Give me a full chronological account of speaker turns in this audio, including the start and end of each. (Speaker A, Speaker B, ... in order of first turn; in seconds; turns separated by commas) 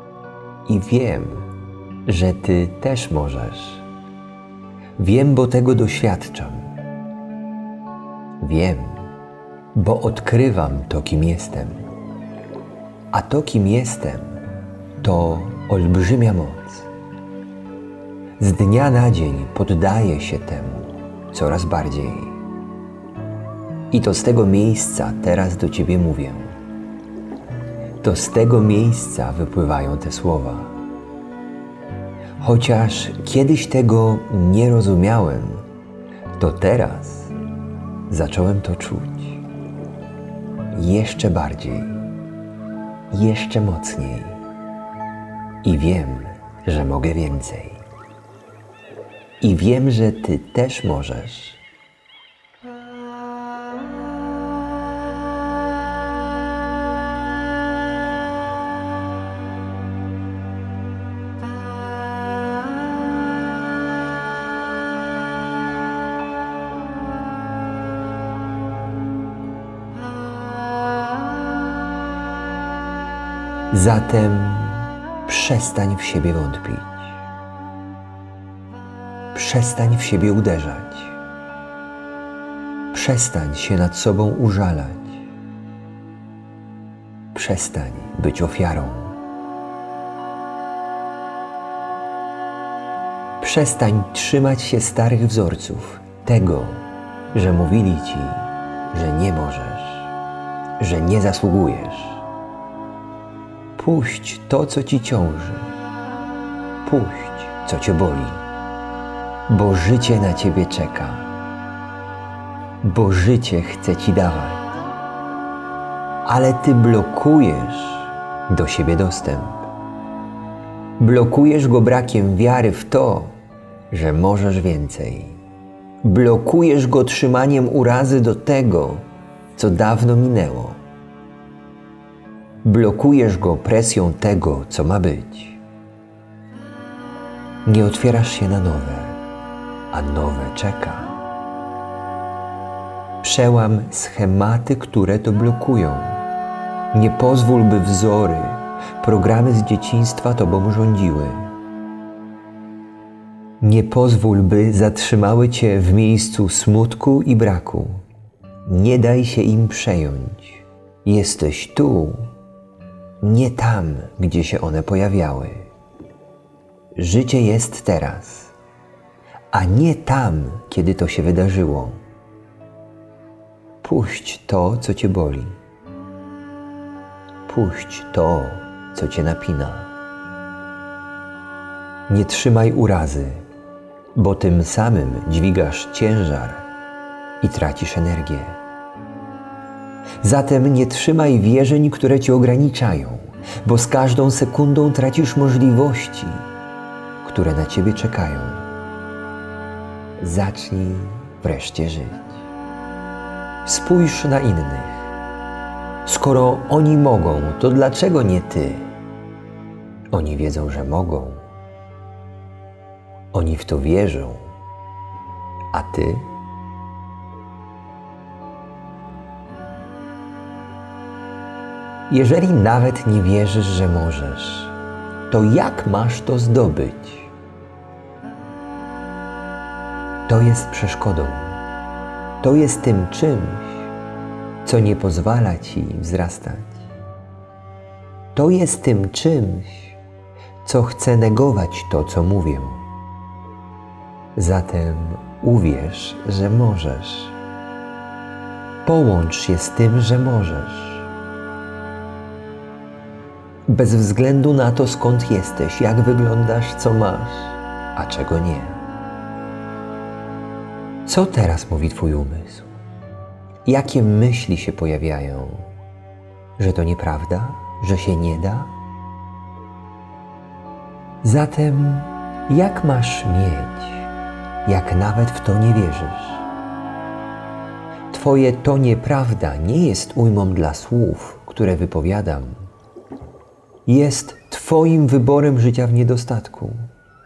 Speaker A: 0.7-1.5, Speaker A: 2.0-3.9, Speaker A: 5.0-6.7, Speaker A: 8.4-9.1, Speaker A: 9.7-11.9, Speaker A: 13.1-14.4, Speaker A: 15.0-16.9, Speaker A: 18.4-22.4, Speaker A: 23.9-26.5, Speaker A: 28.0-30.8, Speaker A: 32.4-35.7, Speaker A: 36.4-37.3, Speaker A: 38.1-39.4, Speaker A: 40.7-42.0, Speaker A: 43.1-44.4, Speaker A: 45.6-47.9, Speaker A: 49.4-51.6, Speaker A: 73.7-77.2, Speaker A: 79.3-81.2, Speaker A: 82.9-85.3, Speaker A: 87.3-89.2, Speaker A: 93.4-100.1, Speaker A: 100.8-102.2, Speaker A: 103.8-105.7, Speaker A: 106.8-108.4, Speaker A: 109.5-111.3, Speaker A: 112.8-114.7, Speaker A: 116.2-119.7, Speaker A: 121.0-123.4, Speaker A: 123.9-125.4, Speaker A: 126.0-130.8, Speaker A: 132.6-135.6, Speaker A: 137.7-139.2, Speaker A: 139.9-141.1, Speaker A: 143.2-146.2, Speaker A: 146.9-151.5, Speaker A: 153.6-158.0, Speaker A: 158.7-162.3, Speaker A: 163.2-165.7, Speaker A: 166.9-168.5, Speaker A: 169.5-172.0, Speaker A: 173.8-175.6, Speaker A: 177.4-179.9, Speaker A: 182.1-183.4, Speaker A: 184.2-186.7, Speaker A: 187.4-188.6, Speaker A: 190.2-196.4, Speaker A: 197.2-198.6, Speaker A: 200.2-202.5, Speaker A: 203.7-205.2, Speaker A: 206.0-208.9, Speaker A: 210.1-211.5, Speaker A: 213.3-214.6, Speaker A: 215.7-216.3, Speaker A: 222.1-224.8, Speaker A: 225.3-227.3, Speaker A: 230.3-231.6, Speaker A: 232.4-233.9, Speaker A: 234.6-236.9, Speaker A: 238.3-240.0, Speaker A: 240.6-242.9, Speaker A: 244.4-247.4, Speaker A: 248.8-251.1, Speaker A: 253.7-258.8, Speaker A: 261.1-262.7, Speaker A: 263.6-265.7, Speaker A: 266.6-268.7, Speaker A: 271.2-274.1, Speaker A: 274.6-276.5, Speaker A: 278.1-282.7, Speaker A: 283.9-286.9